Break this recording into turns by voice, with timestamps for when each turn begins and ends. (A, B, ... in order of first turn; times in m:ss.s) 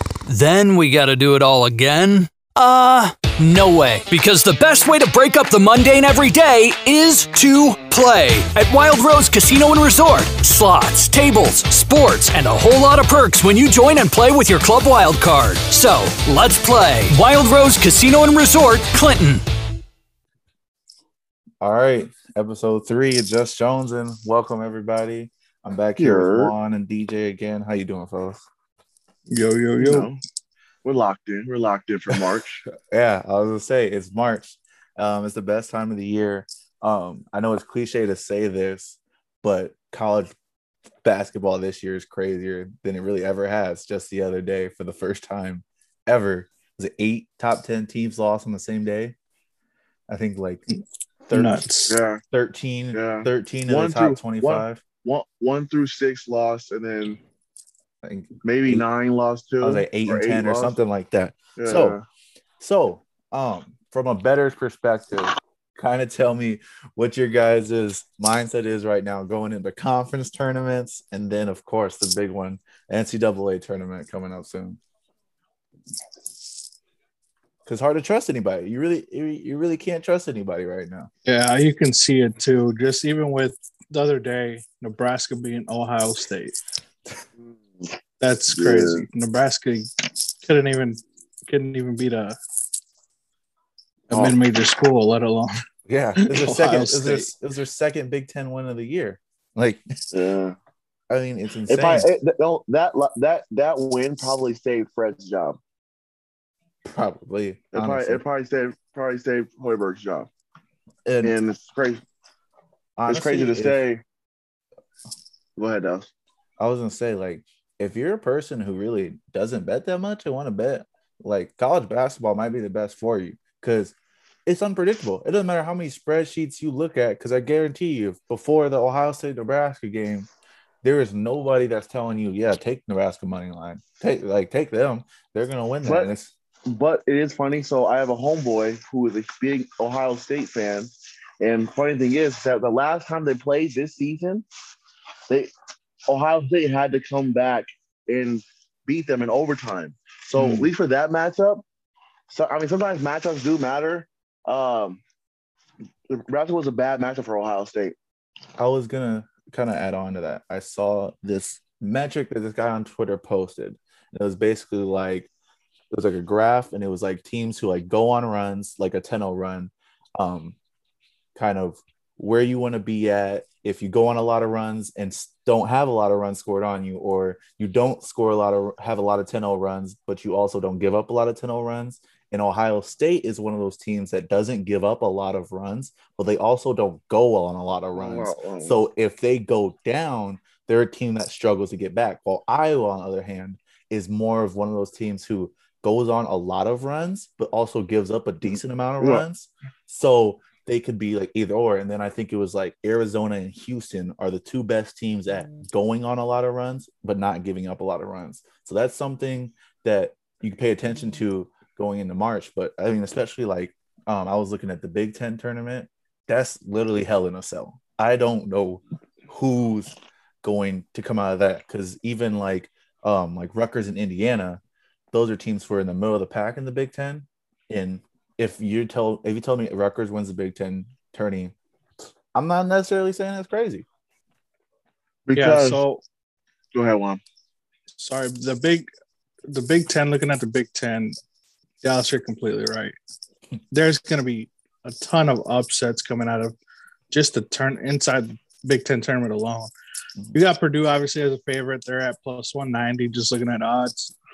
0:00.3-0:19.5 A
0:21.6-0:28.4 B
0:26.0-0:26.5 C
0:29.3-0:30.1 D
0:29.8-0:30.2 C
0:30.8-0:32.6 C
0:32.8-0:40.3 B
0:41.0-0:49.2 B
0:50.1-0:50.7 B
0:50.7-0:52.0 D
0:51.3-0:51.6 B
0:51.9-0:52.2 C
0:52.3-0:54.8 B
0:52.9-0:57.2 C
0:58.0-0:58.8 B
0:58.4-1:00.8 C
0:59.6-1:02.0 B
1:01.6-1:02.0 C
1:02.6-1:14.8 B
1:17.6-1:21.1 B
1:21.3-1:26.6 D
1:28.2-1:32.4 D
1:28.5-1:29.0 C
1:34.1-1:35.5 D
1:35.9-1:40.0 B
1:36.2-1:37.3 D
1:40.1-1:40.6 C
1:41.1-1:42.1 B
1:41.7-1:45.6 C
1:46.8-1:48.2 B
1:47.7-1:50.3 C
1:51.1-1:51.4 B
1:51.2-1:52.0 C
1:53.0-1:53.8 B
1:53.1-1:54.0 C
1:55.6-1:56.1 C
1:56.6-2:04.0 B
2:04.5-2:10.3 B
2:10.8-2:16.3 B
2:15.8-2:16.1 C
2:16.7-2:24.4 C
2:26.1-2:31.6 C
2:30.4-2:30.7 B
2:32.3-2:35.0 C
2:36.1-2:38.0 C
2:38.6-2:45.3 B
2:45.9-2:50.6 B
2:51.4-3:44.6 B
3:08.0-3:08.8 C
3:45.1-3:51.5 B
3:52.3-3:53.8 B
3:55.3-3:55.8 C
3:55.4-3:56.0 D
3:56.7-3:57.2 C
3:58.0-3:58.9 D
3:59.5-4:01.2 D
4:01.8-4:03.0 D
4:03.7-4:06.6 D
4:07.1-4:09.7 D
4:10.3-4:14.1 D